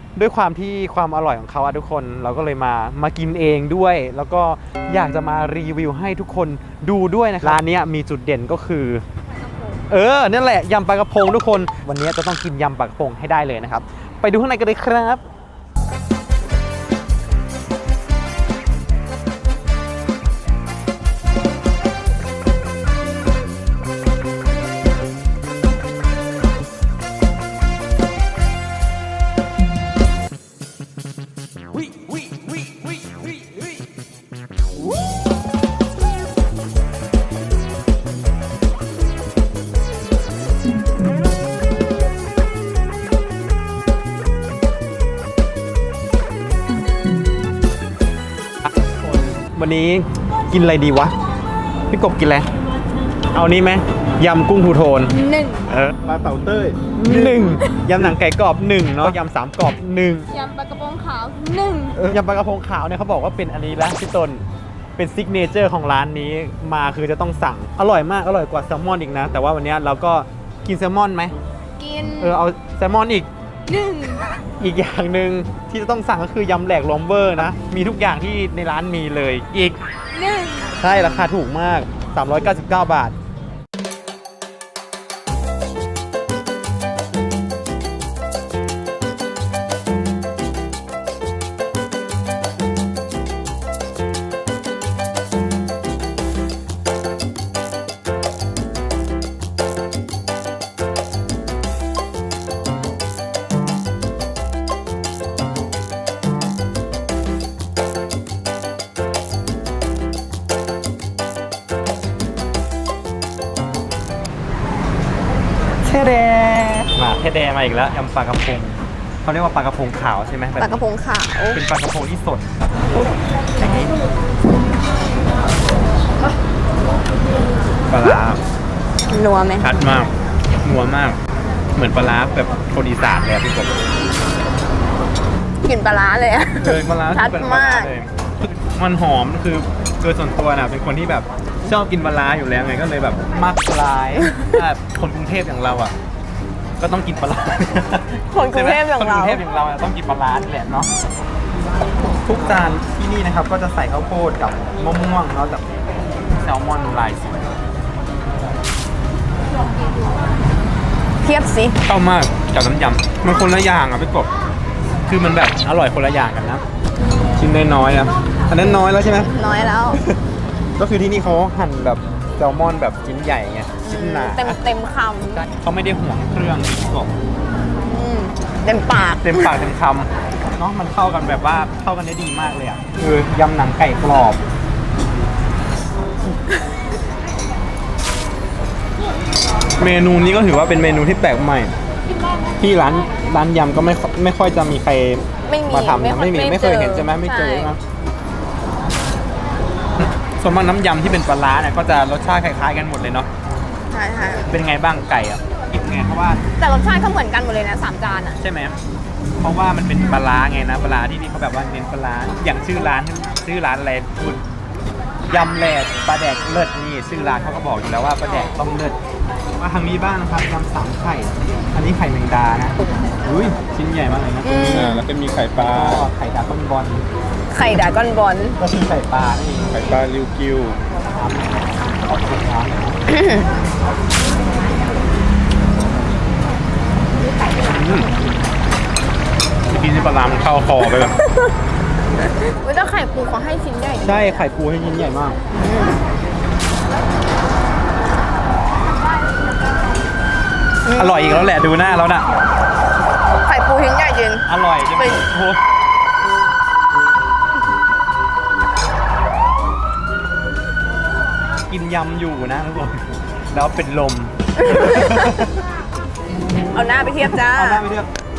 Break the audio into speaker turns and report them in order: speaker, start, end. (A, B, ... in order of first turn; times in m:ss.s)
0:00.2-0:09.0 A
0:09.9-0:15.2 A
0:49.4-0:51.1 A
0:51.9-0:52.5 A
0:53.3-0:56.0 A
0:55.2-0:55.6 B
0:56.0-0:57.0 C
0:56.9-1:00.3 A
1:00.3-1:02.1 B
1:02.0-1:04.4 A
1:05.0-1:11.3 A
1:11.8-1:12.4 B
1:12.2-1:13.3 A
1:13.7-1:14.2 B
1:14.6-1:19.8 A
1:20.1-1:20.7 B
1:20.8-1:23.1 A
1:55.8-2:00.8 A
2:00.6-2:01.6 B
2:01.5-2:02.5 A
2:03.6-2:03.9 A
2:07.9-2:08.4 A
2:09.1-2:09.7 B
2:09.6-2:10.1 A
2:10.6-2:11.2 A
2:11.7-2:13.8 A
2:15.6-2:17.9 B
2:16.6-2:25.9 A
2:24.2-2:24.5 B
2:26.8-2:30.9 A
2:28.3-2:29.4 B
2:32.2-2:35.6 A
2:36.3-2:37.5 A
2:41.2-2:41.8 B
2:41.8-2:44.3 A
2:45.0-2:46.6 A
2:47.3-2:49.3 A
2:49.3-2:50.0 B
2:50.8-2:54.6 A
2:53.8-2:55.4 B
2:55.5-2:57.1 A
2:57.8-2:59.5 B
2:59.2-3:04.4 A
3:09.8-3:11.7 A
3:12.6-3:17.8 A
3:15.5-3:17.8 B
3:20.0-3:23.3 A
3:23.9-3:24.5 B
3:24.4-3:26.4 A
3:26.6-3:28.4 B
3:28.4-3:28.7 A
3:29.4-3:34.4 A
3:35.3-3:39.0 A
3:39.6-3:45.0 A
3:44.4-3:45.0 B
3:44.7-3:46.1 C
3:45.6-3:47.0 A
3:47.5-3:48.6 B
3:48.6-3:49.8 A
3:49.7-3:50.8 C
3:51.1-3:52.9 A
3:53.1-3:53.5 B
3:57.6-3:58.1 A
3:59.7-4:01.1 A
4:02.2-4:04.4 B
4:04.0-4:05.4 A
4:05.5-4:06.0 B
4:10.8-4:11.5 B
4:10.9-4:12.3 A
4:13.4-4:14.4 B
4:14.4-4:15.6 A
4:15.0-4:15.2 B
4:21.7-4:25.6 A
4:24.6-4:25.5 B
4:26.7-4:27.8 B
4:27.3-4:28.1 A